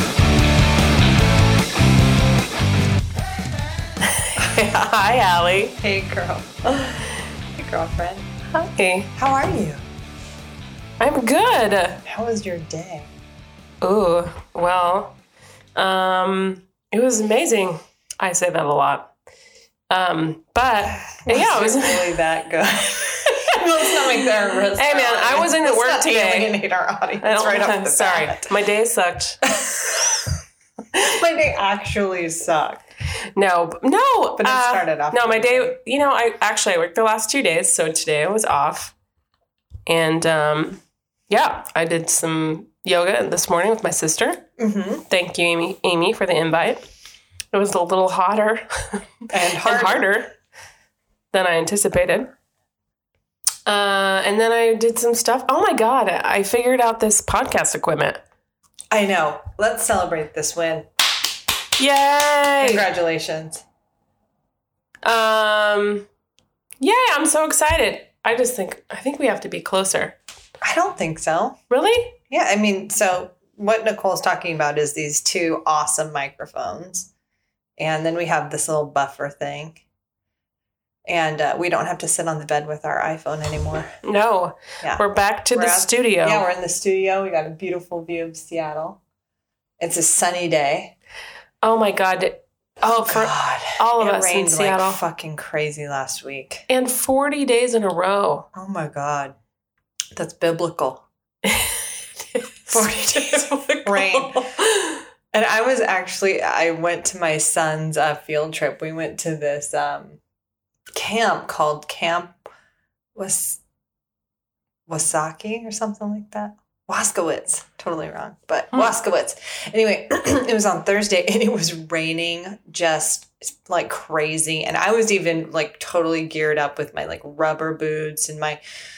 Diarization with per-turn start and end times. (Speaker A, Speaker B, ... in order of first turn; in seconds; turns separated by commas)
Speaker A: 4.0-5.8, Speaker B: 5.8-7.0, Speaker B: 7.5-8.3, Speaker A: 8.5-9.1, Speaker B: 9.2-9.8, Speaker A: 11.0-12.0, Speaker B: 12.1-13.1, Speaker A: 13.8-15.2, Speaker A: 15.8-19.1, Speaker A: 19.9-22.2, Speaker B: 21.2-28.5, Speaker A: 24.7-26.5, Speaker A: 27.2-29.4, Speaker B: 29.4-30.4, Speaker B: 30.9-32.8, Speaker A: 33.3-38.9, Speaker B: 34.4-35.8, Speaker A: 39.9-44.5, Speaker B: 44.6-45.0, Speaker A: 45.1-46.9, Speaker A: 47.5-50.3, Speaker B: 49.3-50.1, Speaker A: 51.3-52.3, Speaker A: 53.7-58.2, Speaker B: 58.9-60.9, Speaker A: 61.8-62.9, Speaker B: 62.6-63.6, Speaker A: 65.0-66.1, Speaker A: 66.8-70.2, Speaker B: 70.6-71.6, Speaker A: 71.7-72.2, Speaker B: 72.3-77.1, Speaker B: 77.8-79.8, Speaker B: 81.1-83.9, Speaker A: 84.0-86.4, Speaker B: 84.8-89.0, Speaker B: 89.8-90.9, Speaker A: 91.6-95.0, Speaker B: 93.0-96.7, Speaker A: 96.7-98.5, Speaker B: 98.5-99.4, Speaker B: 100.1-101.0, Speaker A: 101.4-105.0, Speaker B: 102.7-104.5, Speaker B: 105.3-110.2, Speaker B: 111.0-112.4, Speaker B: 113.1-113.6, Speaker B: 114.9-128.6